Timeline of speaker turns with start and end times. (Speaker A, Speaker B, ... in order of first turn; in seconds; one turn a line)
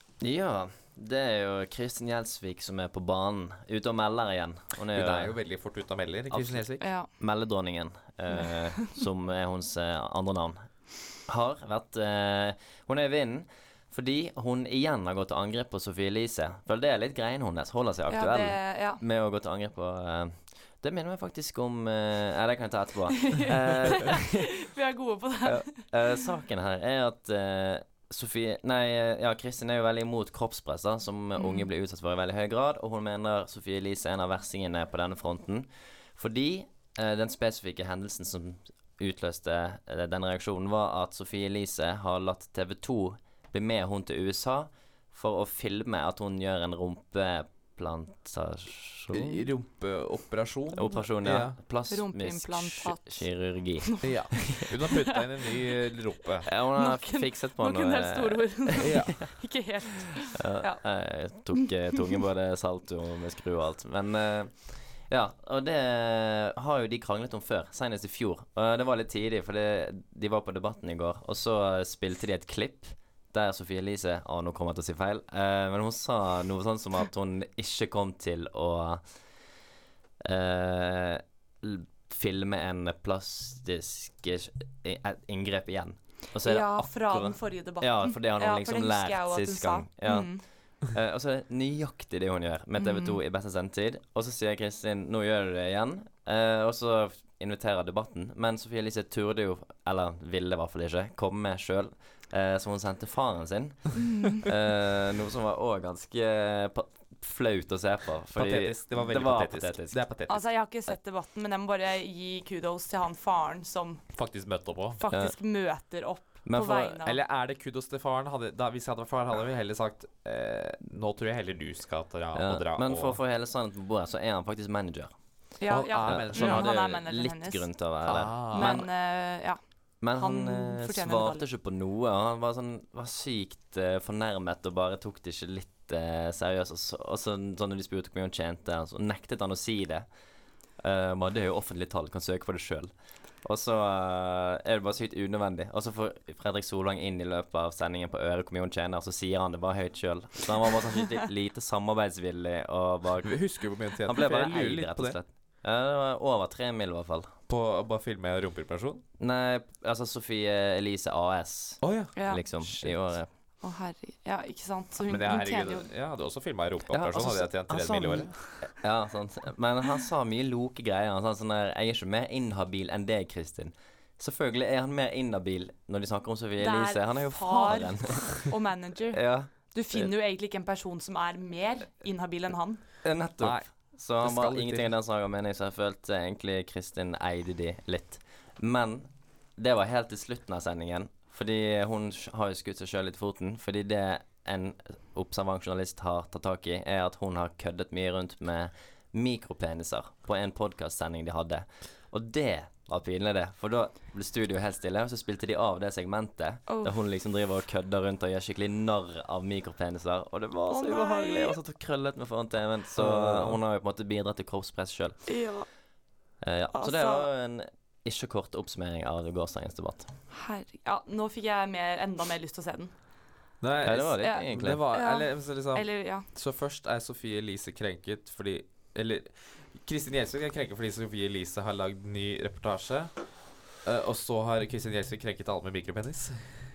Speaker A: 0.2-5.4
Speaker B: 4.9-6.8
Speaker A: 6.3-24.5
Speaker C: 6.8-7.1
Speaker C: 18.1-19.0
Speaker C: 23.2-25.9
Speaker A: 25.4-49.4
Speaker C: 31.4-31.7
Speaker B: 49.1-51.6
Speaker A: 50.7-54.4
Speaker C: 51.9-54.7
Speaker B: 54.0-56.5
Speaker A: 56.5-59.4
Speaker C: 56.7-60.8
Speaker B: 58.8-59.2
Speaker A: 60.3-79.5
Speaker A: 80.2-110.0
Speaker C: 86.4-90.4
Speaker C: 92.8-93.2
Speaker C: 104.1-104.4
Speaker B: 108.3-110.4
Speaker C: 110.3-114.1
Speaker B: 114.1-115.0
Speaker C: 114.9-117.2
Speaker A: 116.4-117.0
Speaker B: 117.0-123.2
Speaker A: 122.3-125.1
Speaker C: 125.6-127.8
Speaker B: 125.7-126.7
Speaker A: 126.0-128.9
Speaker B: 128.0-128.8
Speaker C: 128.5-131.4
Speaker A: 130.0-140.1
Speaker A: 140.8-157.3
Speaker B: 153.2-155.2
Speaker B: 157.5-159.0
Speaker A: 159.2-163.3
Speaker B: 161.8-163.2
Speaker C: 162.1-162.4
Speaker C: 163.6-165.9
Speaker B: 165.1-168.6
Speaker A: 166.9-178.6
Speaker C: 176.6-182.8
Speaker A: 179.1-180.1
Speaker A: 183.0-215.3
Speaker B: 183.4-184.9
Speaker C: 206.7-206.9
Speaker C: 210.7-211.6
Speaker B: 212.9-213.6
Speaker C: 215.3-215.7
Speaker A: 216.4-220.1
Speaker C: 216.7-217.3
Speaker C: 220.3-222.9
Speaker B: 223.6-236.6
Speaker A: 223.8-224.8
Speaker C: 224.2-226.2